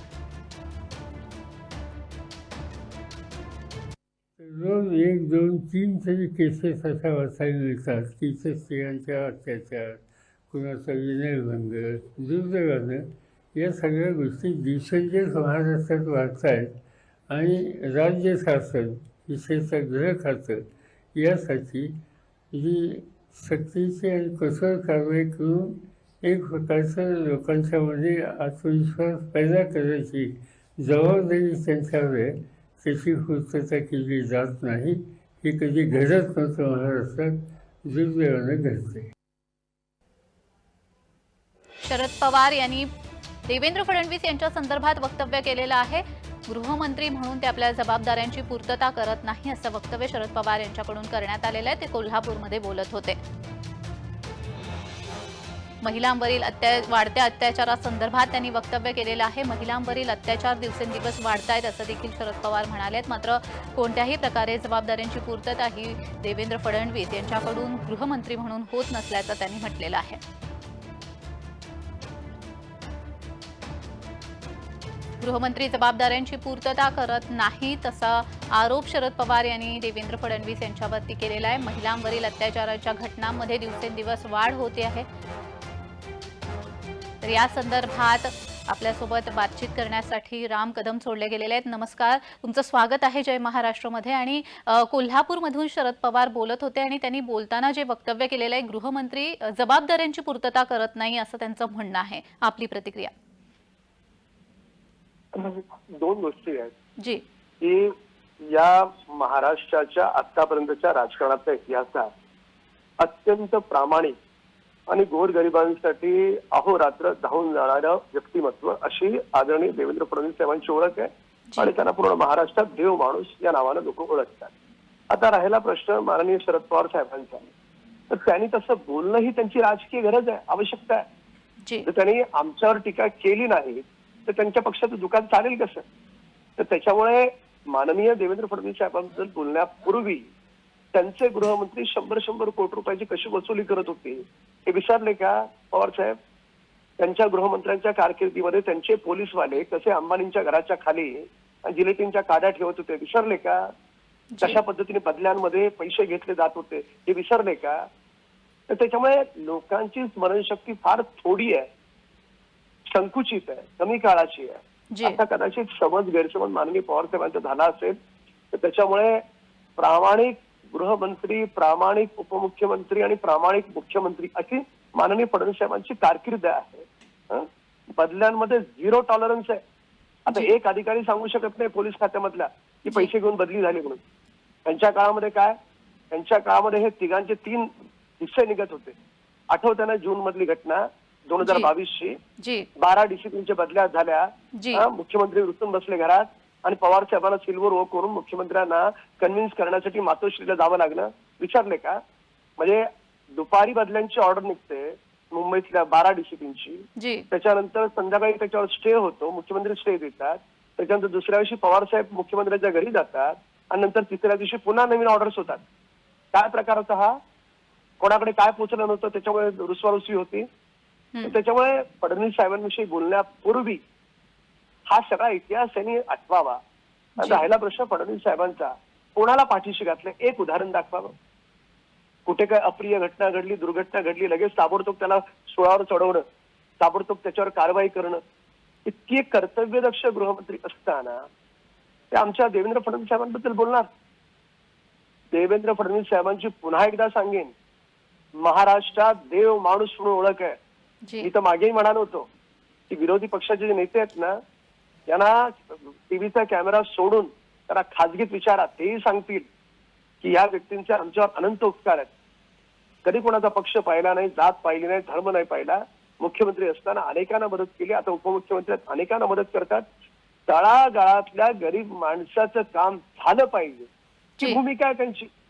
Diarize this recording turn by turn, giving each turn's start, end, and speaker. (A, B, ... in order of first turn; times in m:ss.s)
0:04.4-0:16.7 A
0:17.3-0:20.6 A
0:21.1-0:21.9 A
0:22.5-0:39.1 A
0:41.8-0:42.9 B
0:43.5-0:53.2 B
0:55.8-1:10.2 B
1:15.2-1:25.0 B
1:27.2-1:43.1 B
1:45.3-1:46.7 C
1:47.6-1:47.9 C
1:48.5-1:52.1 C
1:53.0-1:54.1 C
1:54.9-2:04.5 C
2:05.1-2:07.5 C
2:08.1-2:11.0 C
2:11.8-2:15.8 C
2:16.6-2:20.2 C
2:20.9-2:26.2 C
2:27.0-2:33.7 C
2:34.4-2:37.8 C
2:38.7-2:41.7 C
2:42.9-2:47.9 C
2:44.9-2:45.2 B
2:48.5-2:49.2 C
2:49.8-2:59.6 C
3:00.3-3:04.0 C
3:04.6-3:05.5 C
3:06.1-3:07.7 C
3:08.2-3:08.9 C
3:09.5-3:12.2 C
3:11.4-3:11.7 B
3:12.4-3:12.6 B
3:12.8-3:22.0 C
3:14.6-3:14.8 B
3:22.6-3:35.6 C
3:27.0-3:27.2 B
3:36.3-3:37.1 C
3:38.0-3:40.4 C
3:41.2-3:43.8 C
3:44.9-3:46.6 C
3:47.2-3:51.1 C
3:52.2-3:56.2 C
3:56.8-3:58.2 C
3:58.8-4:01.2 C
4:02.1-4:03.9 C
4:05.3-4:07.5 C
4:08.4-4:10.6 C
4:11.2-4:12.3 C
4:12.9-4:14.3 C
4:15.1-4:19.5 C
4:20.2-4:22.1 C
4:23.0-4:29.8 C
4:30.5-4:33.9 C
4:34.4-4:35.3 C